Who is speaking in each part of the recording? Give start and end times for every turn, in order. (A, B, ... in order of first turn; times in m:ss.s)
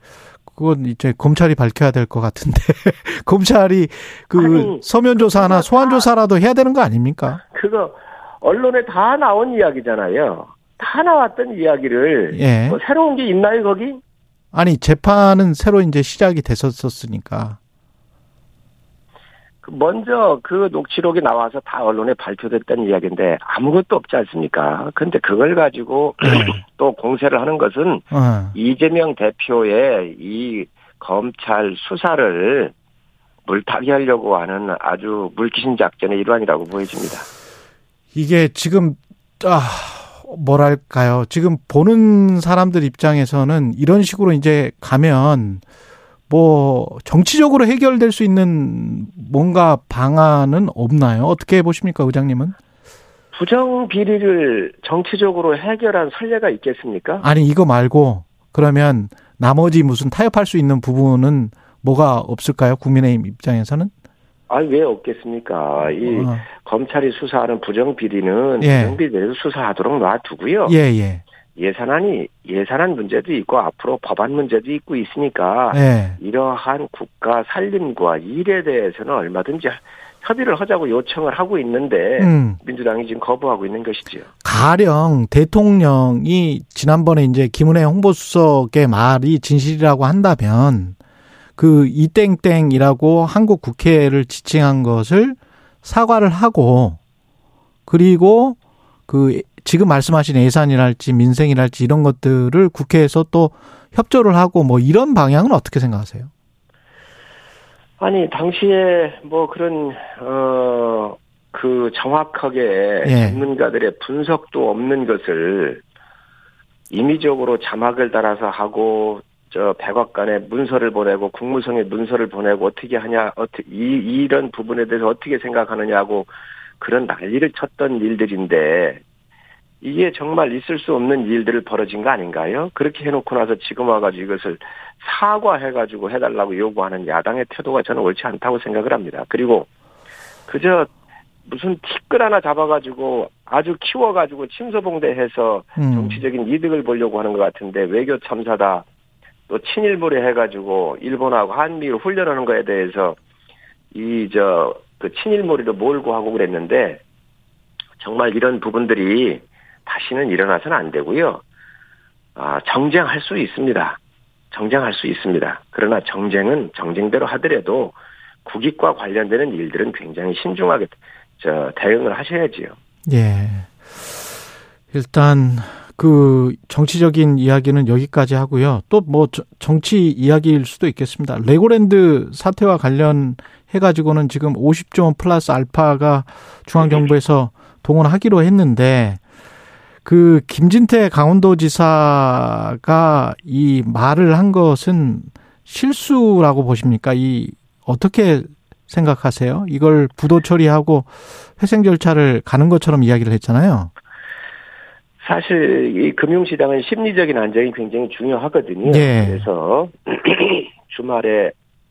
0:00.5-0:07.4 A
0:04.3-0:06.1 B
0:07.4-0:14.0 B
0:12.3-0:12.8 A
0:14.5-0:17.6 A
0:19.6-0:32.7 B
0:26.2-0:26.6 A
0:28.1-0:28.5 A
0:33.4-0:37.3 B
0:38.1-0:45.6 A
0:46.3-0:52.5 A
0:53.3-0:57.3 B
0:57.2-1:03.9 A
1:04.5-1:10.8 B
1:05.8-1:06.4 A
1:08.6-1:09.0 A
1:10.6-1:11.2 A
1:11.6-1:24.3 B
1:15.7-1:16.2 A
1:22.2-1:22.6 A
1:24.4-1:31.0 A
1:31.6-1:37.0 A
1:37.9-1:38.6 A
1:39.1-1:46.3 A
1:48.0-1:55.8 B
1:53.0-1:53.4 A
1:56.9-2:09.0 B
2:09.8-2:19.7 B
2:20.5-2:20.9 B
2:21.4-2:28.8 B
2:25.8-2:26.2 A
2:29.5-2:33.2 B
2:33.9-2:37.0 B
2:38.0-2:41.4 B
2:42.4-2:44.0 B
2:44.5-2:52.8 B
2:53.0-2:54.1 A
2:54.9-3:09.2 A
3:10.0-3:23.9 A
3:25.2-3:31.5 B
3:28.8-3:29.4 A